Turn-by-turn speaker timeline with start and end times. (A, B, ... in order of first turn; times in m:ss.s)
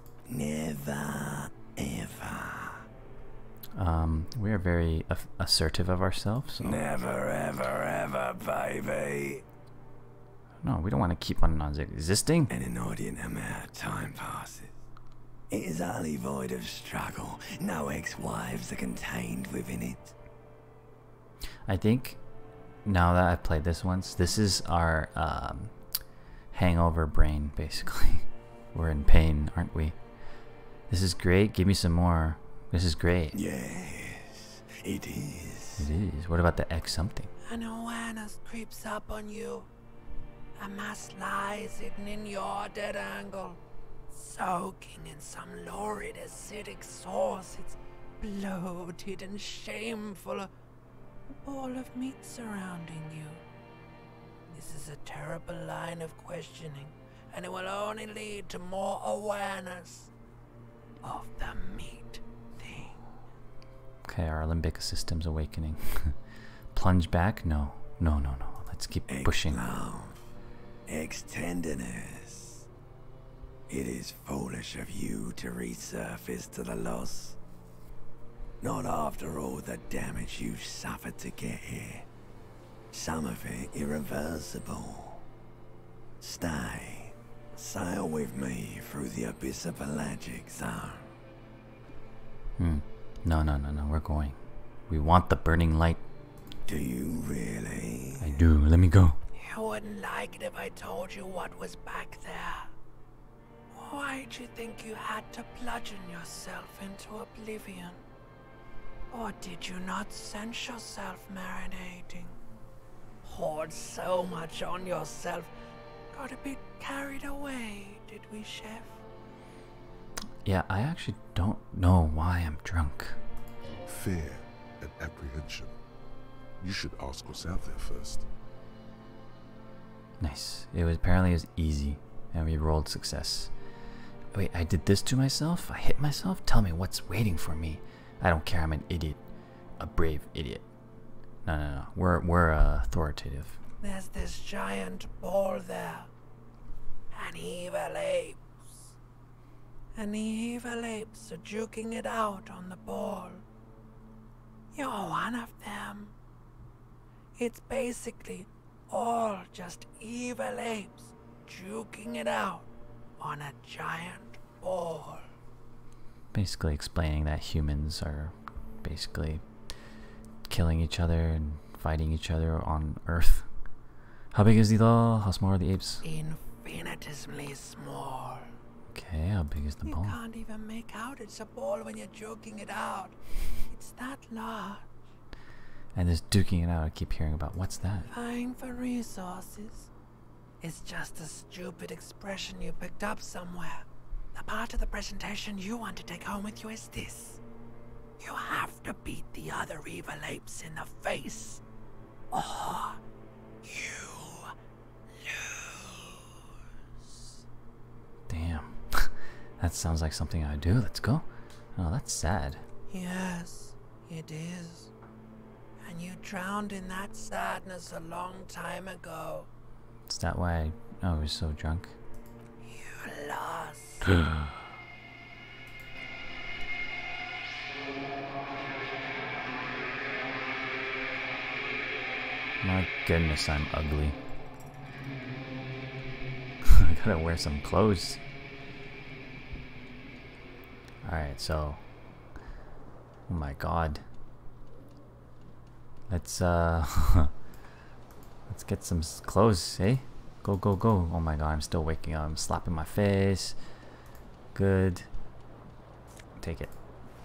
0:00.3-0:02.8 A
0:03.8-0:06.8 B
0:06.6-0:09.4 A
0:10.6-0:12.5 B
0:12.5-0:14.8 A
0:15.5-0:20.1 A
0:21.7-0:22.2 B
0:22.8-0:25.7 B
0:26.5-0:30.0 B
0:30.9-0:33.3 B
0:33.3-0:35.8 A
0:35.8-0:37.3 B
0:37.5-0:39.7 C
0:40.6-0:50.5 C
0:51.4-0:53.4 C
0:54.5-1:00.1 C
1:01.0-1:03.1 C
1:04.0-1:06.2 B
1:06.7-1:09.6 B
1:09.1-1:10.2 A
1:10.9-1:12.6 A
1:13.7-1:17.4 A
1:18.6-1:22.1 A
1:22.9-1:25.2 A
1:26.2-1:31.1 A
1:32.6-1:36.0 B
1:36.6-1:38.4 A
1:38.2-1:39.2 B
1:39.4-1:42.7 C
1:43.7-1:48.0 C
1:49.1-1:52.3 C
1:53.2-1:55.5 C
1:56.1-1:59.0 C
2:00.4-2:03.2 B
2:03.8-2:05.8 D
2:06.6-2:08.2 D
2:10.2-2:13.5 B
2:14.3-2:19.2 B
2:19.8-2:20.6 B
2:21.4-2:23.6 B
2:23.8-2:26.1 C
2:27.1-2:28.9 C
2:29.9-2:33.4 C
2:34.7-2:36.1 C
2:37.4-2:45.2 C
2:46.3-2:49.4 B
2:50.5-2:53.5 B
2:54.3-2:56.0 B
2:56.0-2:58.5 C
2:58.9-3:00.2 B
2:59.8-3:04.9 C
3:05.9-3:08.1 B
3:08.1-3:09.9 C
3:10.6-3:17.4 C
3:18.2-3:21.6 C
3:22.3-3:23.0 C
3:23.6-3:24.5 C
3:25.2-3:26.4 C
3:28.3-3:32.6 B
3:32.9-3:34.9 C
3:35.8-3:39.5 C
3:40.1-3:41.9 B
3:42.6-3:44.2 C
3:44.0-3:44.5 B
3:52.6-3:54.2 B
3:56.6-3:58.2 B
4:01.0-4:01.8 B
4:03.3-4:04.0 B
4:06.1-4:07.3 B
4:08.5-4:13.6 B
4:14.5-4:15.1 B
4:16.4-4:16.7 B